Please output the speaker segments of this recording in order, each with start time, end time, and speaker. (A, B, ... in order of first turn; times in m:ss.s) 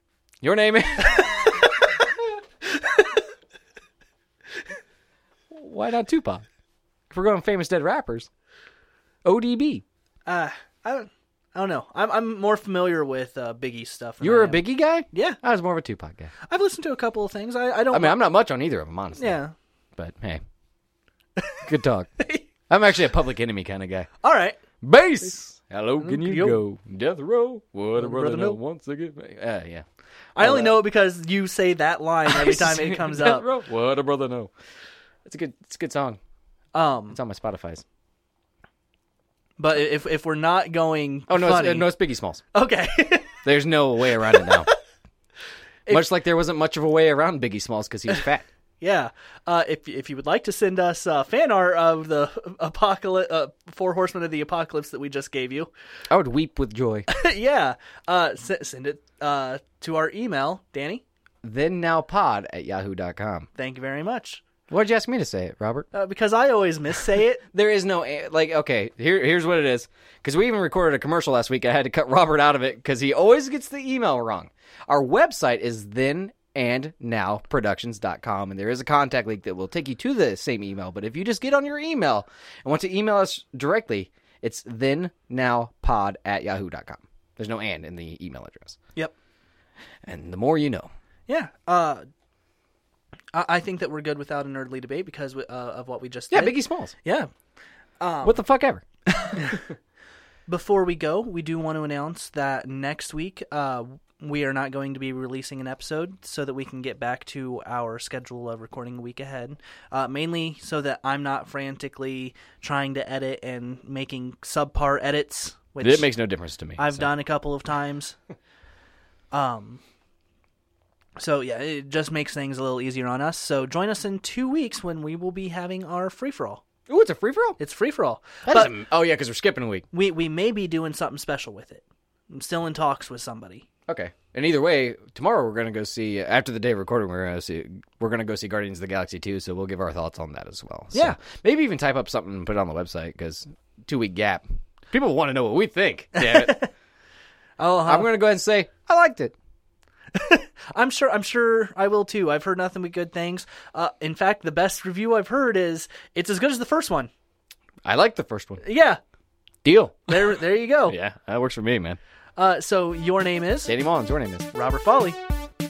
0:00.4-0:01.9 A
0:05.5-0:06.4 A
0:07.1-0:08.3 A
0:09.2-0:09.8 A
0:10.3-0:15.4 B
0:14.2-0:16.3 A
0:16.5-0:18.2 B
0:17.9-0:19.4 A
0:19.2-0:19.5 B
0:20.0-0:20.4 A
0:21.4-0:21.7 B
0:21.6-0:22.1 A
0:22.7-0:24.1 A
0:24.2-0:24.6 B
0:24.8-0:29.8 A
0:26.0-0:26.6 B
0:28.0-0:28.6 B
0:30.4-0:33.5 B
0:30.4-0:30.8 A
0:32.3-0:34.5 A
0:35.2-0:36.2 A
0:36.7-0:37.2 B
0:37.1-0:37.8 A
0:39.6-0:41.9 B
0:41.3-0:42.4 A
0:42.5-0:43.4 B
0:43.4-0:44.7 A
0:44.3-0:44.7 B
0:45.9-0:48.5 A
0:48.8-0:55.7 B
0:56.1-0:57.1 A
0:57.1-1:01.0 B
1:01.4-1:03.5 A
1:03.6-1:04.4 B
1:04.7-1:05.9 A
1:05.9-1:07.4 B
1:07.5-1:28.8 A
1:30.1-1:30.9 A
1:31.3-1:32.1 B
1:33.3-1:37.3 B
1:36.3-1:36.9 A
1:38.0-1:38.4 B
1:38.2-1:39.8 A
1:39.4-1:39.6 B
1:40.5-1:56.1 B
1:55.8-1:57.1 A
1:56.8-1:58.2 B
1:59.3-1:59.8 B
2:01.2-2:06.6 B
2:06.9-2:07.6 A
2:07.6-2:08.7 B
2:08.5-2:09.9 A
2:09.9-2:13.7 B
2:13.9-2:26.7 A
2:20.9-2:21.2 B
2:26.2-2:26.7 B
2:27.6-2:28.1 B
2:27.9-2:29.4 A
2:30.1-2:37.1 B
2:37.8-2:38.6 A
2:38.6-2:39.0 B
2:39.6-2:42.0 A
2:40.1-2:41.0 B
2:42.4-2:43.7 B
2:43.7-2:44.5 A
2:44.5-2:45.2 B